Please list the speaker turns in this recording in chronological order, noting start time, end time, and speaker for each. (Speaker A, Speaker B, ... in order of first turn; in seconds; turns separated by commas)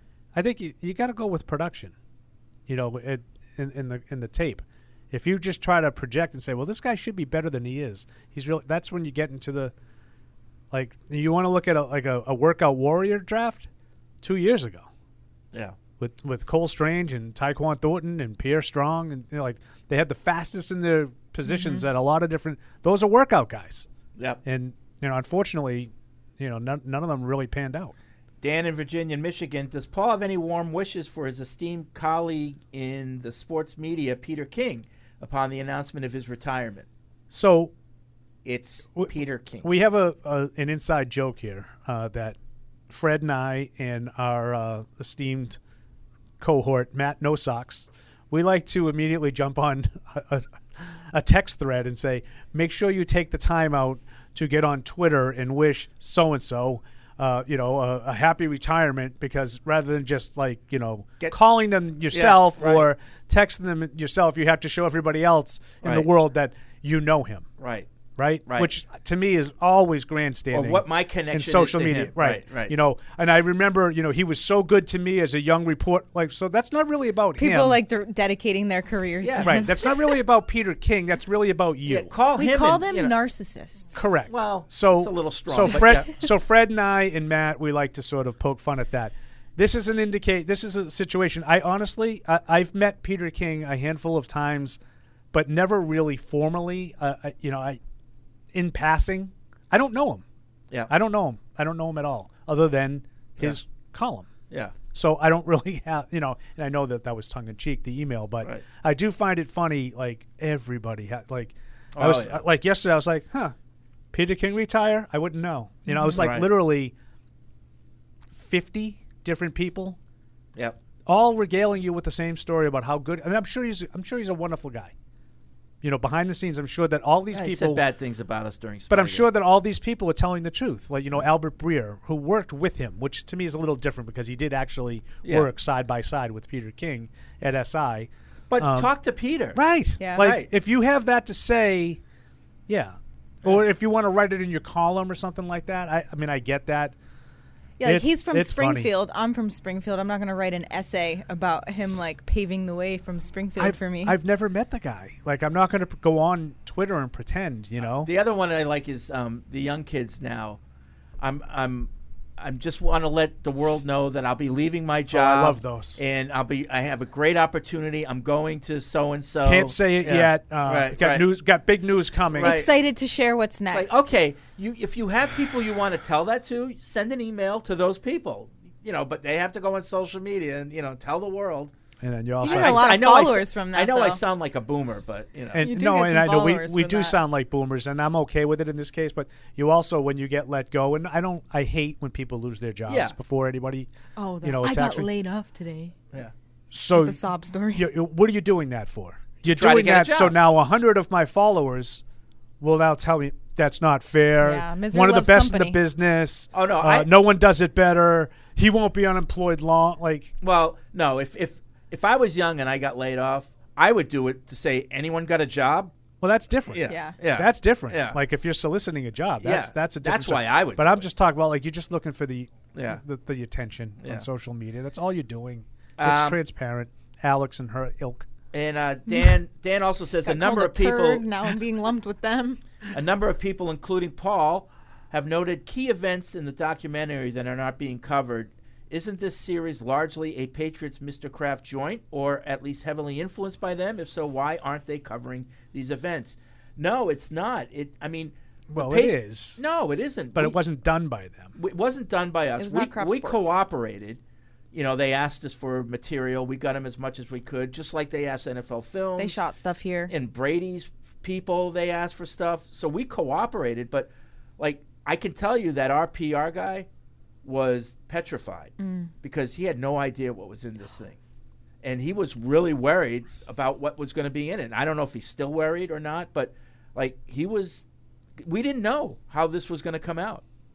Speaker A: 0.3-1.9, Speaker A: 2.7-9.7, Speaker A: 10.7-13.7, Speaker A: 14.2-14.9, Speaker A: 16.0-23.9, Speaker B: 21.4-21.9, Speaker A: 24.4-27.9, Speaker C: 28.4-36.9, Speaker A: 37.3-37.7, Speaker C: 38.4-39.7, Speaker A: 39.0-42.4, Speaker A: 42.9-45.6, Speaker A: 46.4-67.5, Speaker C: 62.1-62.9, Speaker C: 67.6-67.9, Speaker A: 68.2-77.8, Speaker C: 70.5-72.7, Speaker B: 77.4-80.1, Speaker C: 79.2-79.6, Speaker A: 79.4-82.1, Speaker C: 81.8-83.1, Speaker B: 82.3-84.0, Speaker A: 83.9-94.8, Speaker C: 84.3-86.1, Speaker A: 95.3-97.8, Speaker A: 98.5-100.2, Speaker A: 100.9-104.3, Speaker A: 104.9-113.5, Speaker C: 111.9-112.4, Speaker A: 114.1-116.9, Speaker B: 115.9-116.3, Speaker C: 116.2-116.5, Speaker A: 118.3-120.0, Speaker A: 121.0-124.9, Speaker A: 125.8-127.8, Speaker C: 127.3-129.3, Speaker A: 128.9-138.9, Speaker C: 135.2-135.5, Speaker C: 138.5-139.6, Speaker A: 139.5-142.0, Speaker B: 140.0-140.3, Speaker C: 140.2-140.5, Speaker A: 142.7-146.9, Speaker B: 147.8-154.2, Speaker A: 147.8-148.9, Speaker A: 153.6-158.1, Speaker C: 157.8-160.6, Speaker C: 161.2-171.3, Speaker A: 165.1-166.0, Speaker A: 169.4-172.6, Speaker B: 172.3-174.0, Speaker C: 172.4-172.7, Speaker C: 173.7-181.7, Speaker A: 182.0-182.8, Speaker B: 182.4-184.2, Speaker C: 182.4-185.6, Speaker A: 185.5-193.9, Speaker B: 185.6-187.2, Speaker C: 192.9-193.1, Speaker B: 194.2-195.9, Speaker A: 194.4-195.1, Speaker A: 196.7-197.2, Speaker B: 196.9-197.9, Speaker A: 197.7-202.0, Speaker C: 199.4-200.3, Speaker A: 202.6-210.3, Speaker B: 204.4-205.8, Speaker C: 206.5-207.1, Speaker C: 210.4-215.9, Speaker A: 216.2-228.2, Speaker C: 216.7-218.2, Speaker B: 216.9-217.1, Speaker C: 219.4-221.1, Speaker C: 222.7-223.0, Speaker C: 226.0-226.4, Speaker C: 228.5-231.2, Speaker B: 230.2-232.6, Speaker C: 232.9-250.6, Speaker A: 248.7-249.6, Speaker A: 250.3-251.6, Speaker C: 251.6-254.2, Speaker B: 252.6-253.5, Speaker C: 254.7-259.4, Speaker B: 259.2-260.1, Speaker C: 260.1-266.9, Speaker C: 267.4-271.2, Speaker B: 268.8-269.1, Speaker C: 271.8-277.9, Speaker C: 278.4-280.4